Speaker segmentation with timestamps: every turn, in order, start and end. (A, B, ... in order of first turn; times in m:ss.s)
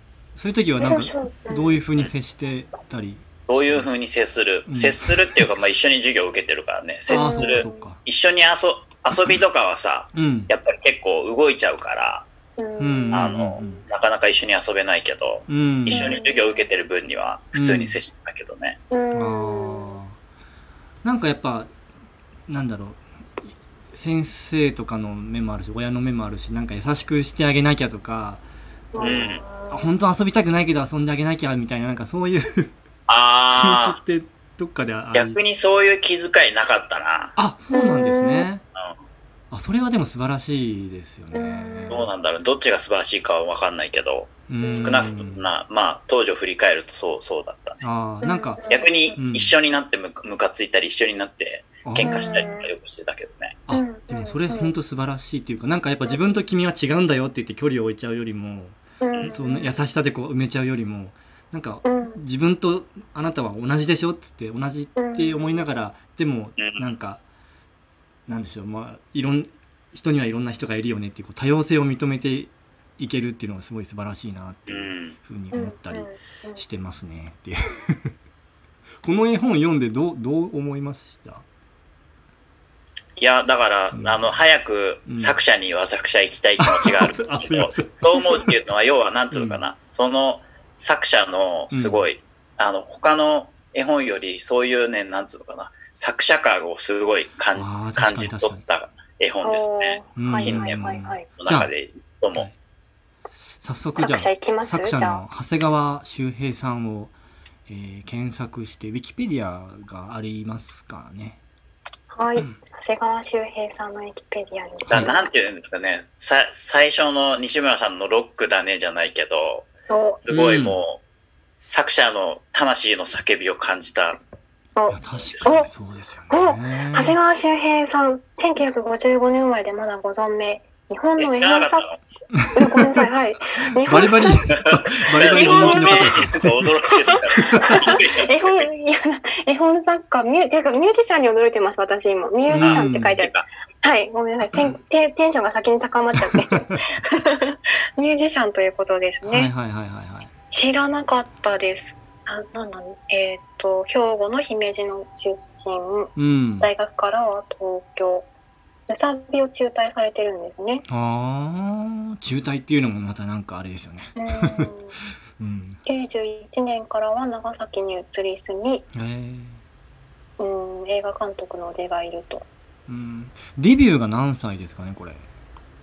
0:00.4-0:03.9 A
0:00.8-0:01.8 B
0:03.5-0:12.3 C
0:04.7-0:05.4 A
0:07.1-0:07.8 B
0:07.1-0:08.0 A
0:10.1-0:10.5 A
0:12.6-0:13.3 B
0:12.8-0:13.8 A
0:13.1-0:18.8 C
0:15.5-0:16.2 A
0:15.9-0:16.7 B
0:17.5-0:18.0 A
0:18.9-0:20.0 B
0:19.1-0:20.2 A
0:21.0-0:21.7 A
0:22.5-0:28.4 A
0:28.9-0:29.9 B
0:29.0-0:32.7 A
0:29.0-0:29.4 C
0:33.1-0:34.0 C
0:33.5-0:35.4 A
0:35.1-0:37.3 C
0:37.4-0:38.6 A
0:37.7-0:38.5 B
0:39.5-0:42.1 A
0:41.3-0:42.1 B
0:41.9-0:47.8 C
0:44.5-0:45.5 A
0:44.6-0:45.0 B
0:47.8-0:49.5 A
0:48.2-0:49.2 B
0:48.7-0:53.6 C
0:51.8-0:52.4 A
0:52.0-0:52.7 B
0:53.7-1:07.2 A
0:53.7-0:54.8 B
0:59.0-0:59.8 B
1:01.8-1:02.2 B
1:05.0-1:05.7 B
1:06.6-1:06.9 C
1:08.3-1:18.1 A
1:14.7-1:15.2 C
1:15.5-1:16.6 B
1:19.0-1:21.4 A
1:23.2-1:42.5 C
1:23.9-1:24.4 A
1:25.1-1:25.4 A
1:26.6-1:28.5 A
1:29.3-1:29.6 A
1:31.7-1:32.0 A
1:37.5-1:38.6 A
1:39.4-1:41.3 B
1:40.2-1:41.7 A
1:43.6-1:47.1 A
1:44.0-1:45.2 B
1:47.7-1:51.4 A
1:52.1-1:55.4 B
1:54.8-1:55.1 A
1:54.9-1:59.7 C
1:59.9-2:00.2 B
2:00.2-2:01.0 C
2:00.3-2:00.8 A
2:01.7-2:04.2 C
2:04.8-2:05.7 B
2:04.9-2:07.2 A
2:05.1-2:05.4 C
2:06.3-2:11.9 B
2:11.2-2:12.0 C
2:12.3-2:13.1 A
2:12.5-2:14.4 B
2:13.8-2:16.7 A
2:14.7-2:18.7 C
2:15.2-2:16.1 B
2:17.0-2:29.5 B
2:17.3-2:17.9 A
2:22.5-2:23.2 A
2:22.5-2:23.4 C
2:26.2-2:26.8 A
2:29.2-2:30.3 A
2:30.5-2:38.3 B
2:36.2-2:36.7 A
2:38.9-2:40.8 B
2:40.9-2:44.7 A
2:44.2-2:44.9 B
2:45.4-2:45.8 A
2:45.8-2:48.8 B
2:48.9-2:49.6 A
2:50.4-2:52.4 B
2:52.9-2:55.2 A